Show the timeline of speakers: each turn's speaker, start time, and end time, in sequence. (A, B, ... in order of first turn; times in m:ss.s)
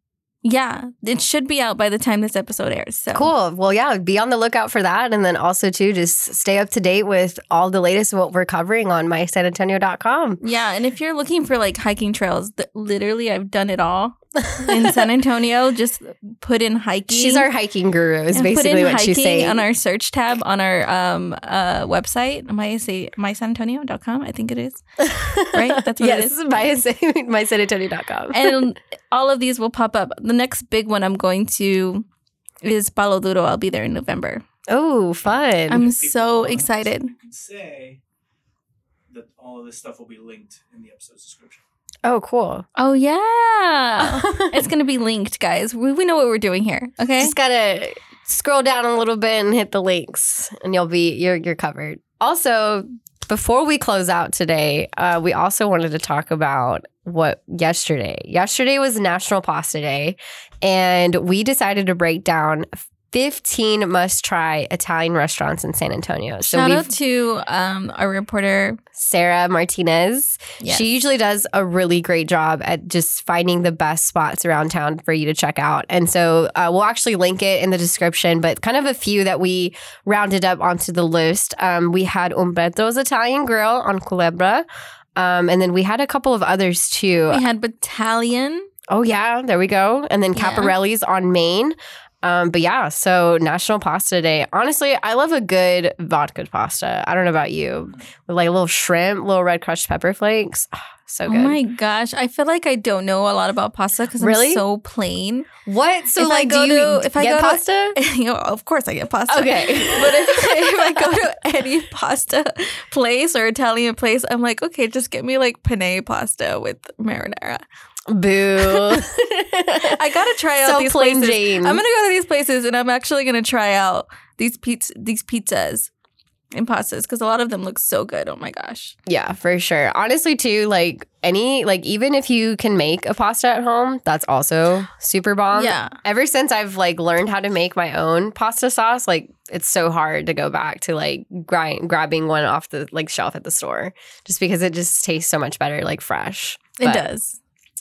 0:00.4-0:03.3 A
0:03.1-0:10.4 B
0:10.4-0:17.5 A
0:14.5-0:15.0 B
0:17.1-0:19.7 B
0:18.3-0:24.8 A
0:25.0-0:28.6 B
0:25.5-0:26.6 A
0:28.3-0:32.1 A
0:32.6-0:34.4 A
0:34.7-0:35.9 B
0:35.7-0:37.1 A
0:35.9-0:38.0 C
0:39.1-0:41.6 C
0:42.0-0:42.6 B
0:42.8-0:47.4 A
0:44.0-0:44.6 B
0:47.2-1:06.9 B
1:06.4-1:08.8 A
1:08.9-1:24.6 B
1:10.6-1:10.9 A
1:25.2-1:27.4 B
1:27.3-1:28.7 A
1:28.9-1:41.6 B
1:30.4-1:30.7 A
1:41.3-1:45.5 A
1:44.2-1:44.6 B
1:45.7-1:48.0 B
1:46.2-1:57.6 A
1:49.3-1:51.1 B
1:58.1-2:00.0 B
1:58.6-1:59.0 A
1:59.8-2:05.9 A
2:00.6-2:01.8 B
2:06.5-2:09.0 A
2:09.1-2:27.0 B
2:15.5-2:16.0 A
2:26.8-2:27.4 A